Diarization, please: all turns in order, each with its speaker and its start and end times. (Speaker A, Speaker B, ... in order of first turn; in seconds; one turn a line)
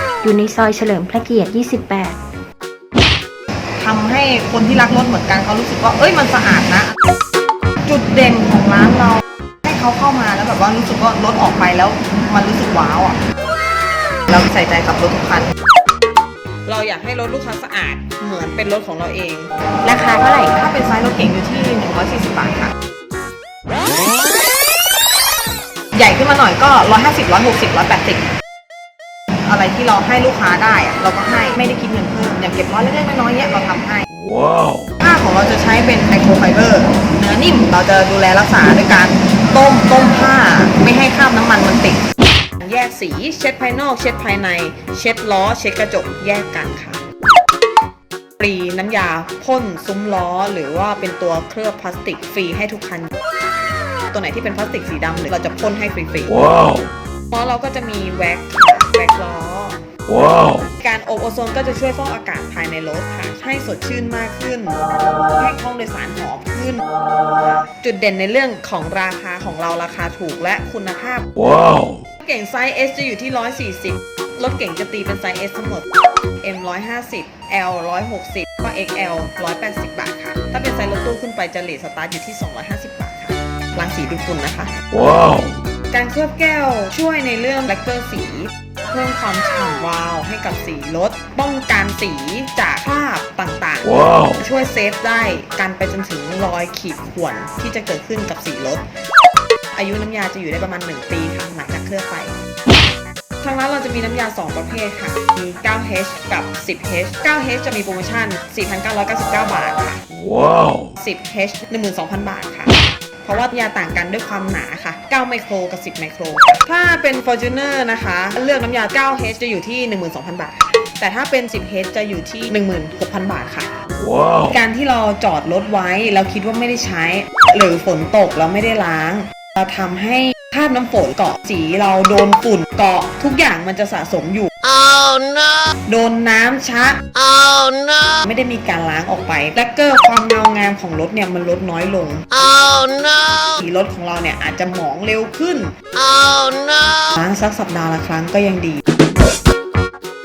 Speaker A: 0.2-2.2
Speaker B: 3.8-6.9
Speaker B: 7.8-13.2
Speaker B: 14.3-15.5
Speaker B: 16.7-22.7
Speaker B: 25.9-28.3
Speaker B: 29.4-34.1
Speaker C: 34.3-34.8
Speaker B: 35.0-42.0
Speaker B: 42.6-47.0
Speaker B: 48.4-53.1
Speaker B: 54.1-56.4
Speaker C: 56.5-56.9
Speaker B: 57.3-59.8
Speaker C: 60.1-60.6
Speaker B: 60.8-64.8
Speaker B: 65.4-66.8
Speaker B: 67.4-71.3
Speaker C: 71.4-72.0
Speaker B: 72.2-75.8
Speaker B: 76.4-84.7
Speaker C: 84.9-85.5
Speaker B: 85.9-98.8
Speaker B: 99.8-102.3
Speaker B: 103.4-110.0
Speaker C: 110.2-110.9
Speaker B: 111.0-123.7
Speaker C: 124.0-124.5
Speaker B: 124.5-134.5
Speaker C: 134.6-135.7
Speaker B: 135.9-137.0
Speaker C: 137.2-138.2
Speaker B: 138.2-142.3
Speaker C: 142.4-143.5
Speaker B: 143.6-145.8
Speaker C: 146.0-147.0
Speaker B: 147.2-148.8